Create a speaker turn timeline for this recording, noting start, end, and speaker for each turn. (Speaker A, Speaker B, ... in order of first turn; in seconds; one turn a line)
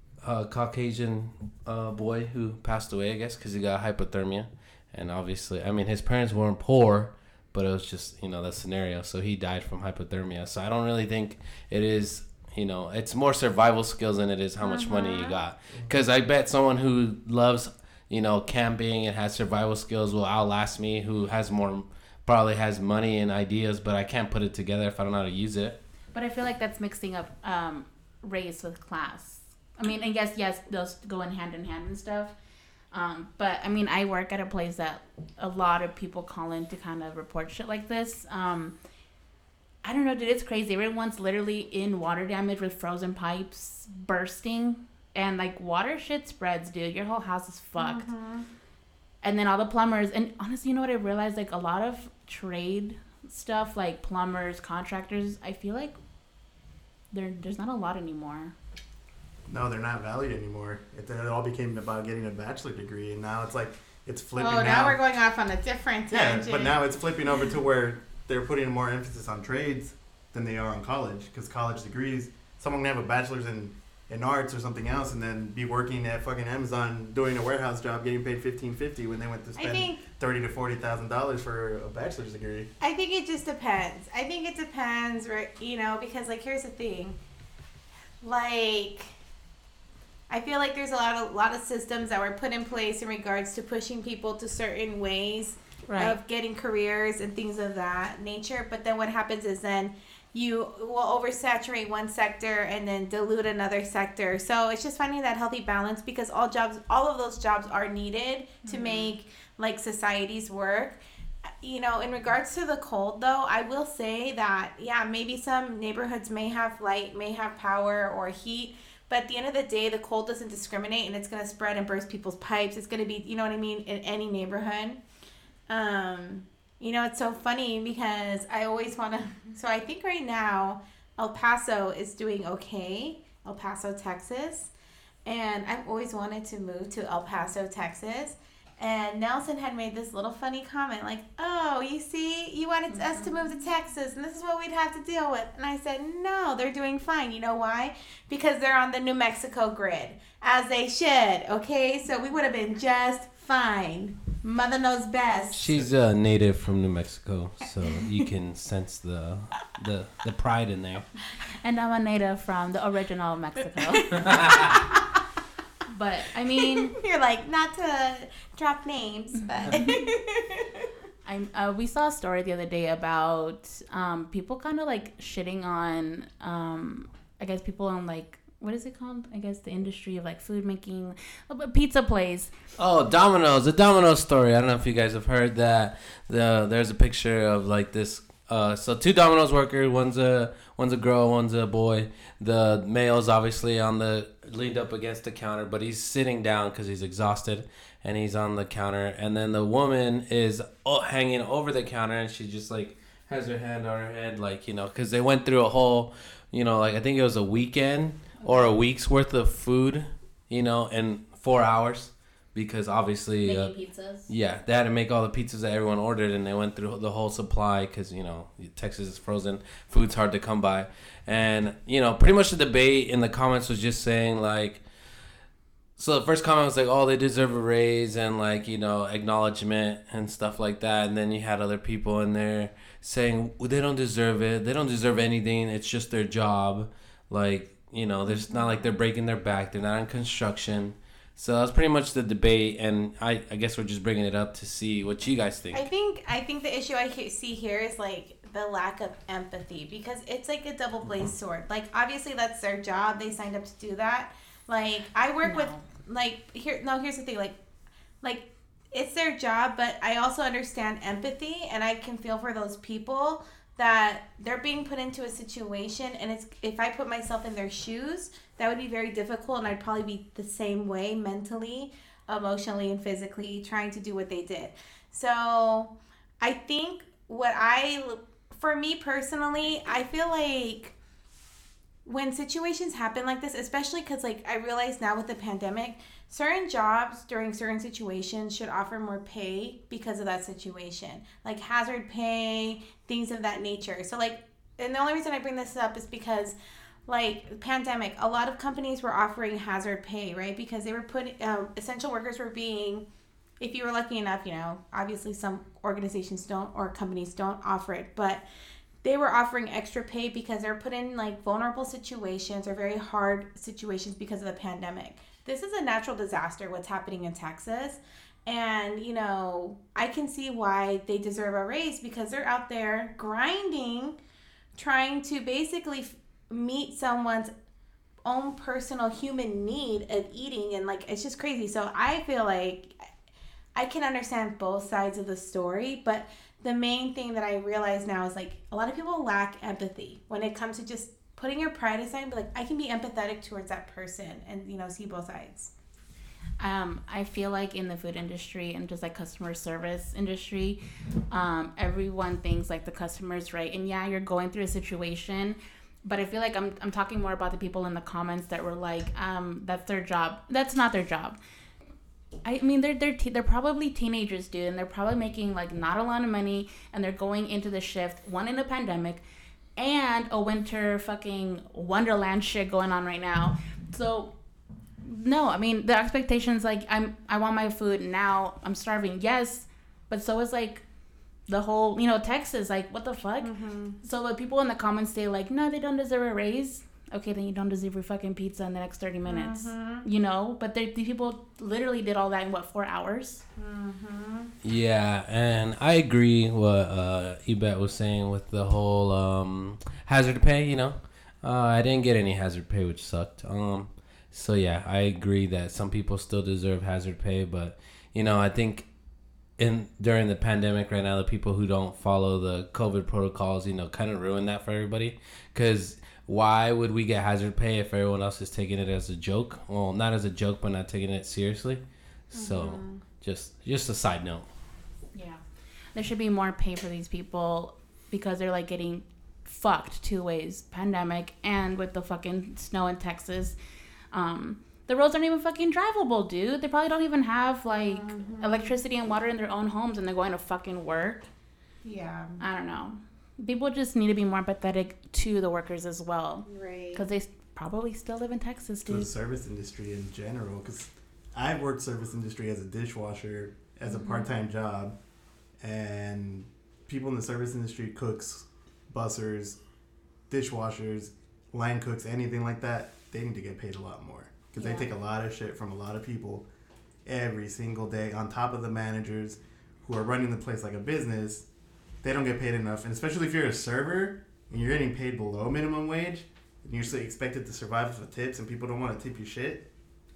Speaker A: 0.2-25.8
Speaker B: 14.6-15.4
Speaker C: 26.1-32.3
Speaker C: 32.9-38.7
Speaker C: 39.8-48.1
Speaker B: 47.8-48.5
Speaker C: 49.2-56.0
Speaker C: 57.1-58.5
Speaker D: 59.5-65.0
Speaker B: 64.3-66.8
Speaker D: 66.1-82.7
Speaker B: 79.6-80.0
Speaker B: 82.8-87.2
Speaker B: 88.2-89.1
Speaker B: 90.3-111.0
Speaker C: 95.9-96.2
Speaker C: 108.6-109.1
Speaker B: 111.6-125.0
Speaker B: 125.7-134.7
Speaker B: 135.2-155.7
Speaker C: 142.9-143.3
Speaker A: 155.5-161.1
Speaker C: 161.6-164.7
Speaker B: 163.9-165.1
Speaker C: 165.9-166.9
Speaker B: 166.6-170.9
Speaker C: 171.2-182.5
Speaker A: 182.8-213.7
Speaker C: 213.4-214.3
Speaker A: 214.3-224.8
Speaker A: 226.0-245.9
Speaker B: 245.7-257.6
Speaker C: 255.4-255.8
Speaker B: 258.2-280.9
Speaker B: 282.0-296.6
Speaker B: 297.1-303.1
Speaker B: 303.6-308.4
Speaker B: 309.0-324.2
Speaker B: 324.7-327.5
Speaker B: 328.2-332.9
Speaker B: 333.7-345.7
Speaker C: 346.6-350.8
Speaker C: 351.3-361.4
Speaker C: 362.4-369.2
Speaker C: 369.8-374.3
Speaker C: 375.0-380.8
Speaker C: 381.5-393.4
Speaker B: 383.4-384.0
Speaker B: 389.2-390.1
Speaker B: 393.6-394.5
Speaker A: 394.6-408.9
Speaker A: 409.6-424.5
Speaker B: 422.3-423.0
Speaker C: 425.1-425.4
Speaker C: 425.9-433.6
Speaker C: 434.1-441.3
Speaker B: 437.8-438.7
Speaker B: 441.8-442.4
Speaker C: 442.4-449.1
Speaker B: 446.5-447.0
Speaker D: 448.9-454.9
Speaker D: 455.6-459.6
Speaker D: 460.3-466.5
Speaker B: 464.6-464.9
Speaker D: 467.1-471.4
Speaker D: 472.0-479.7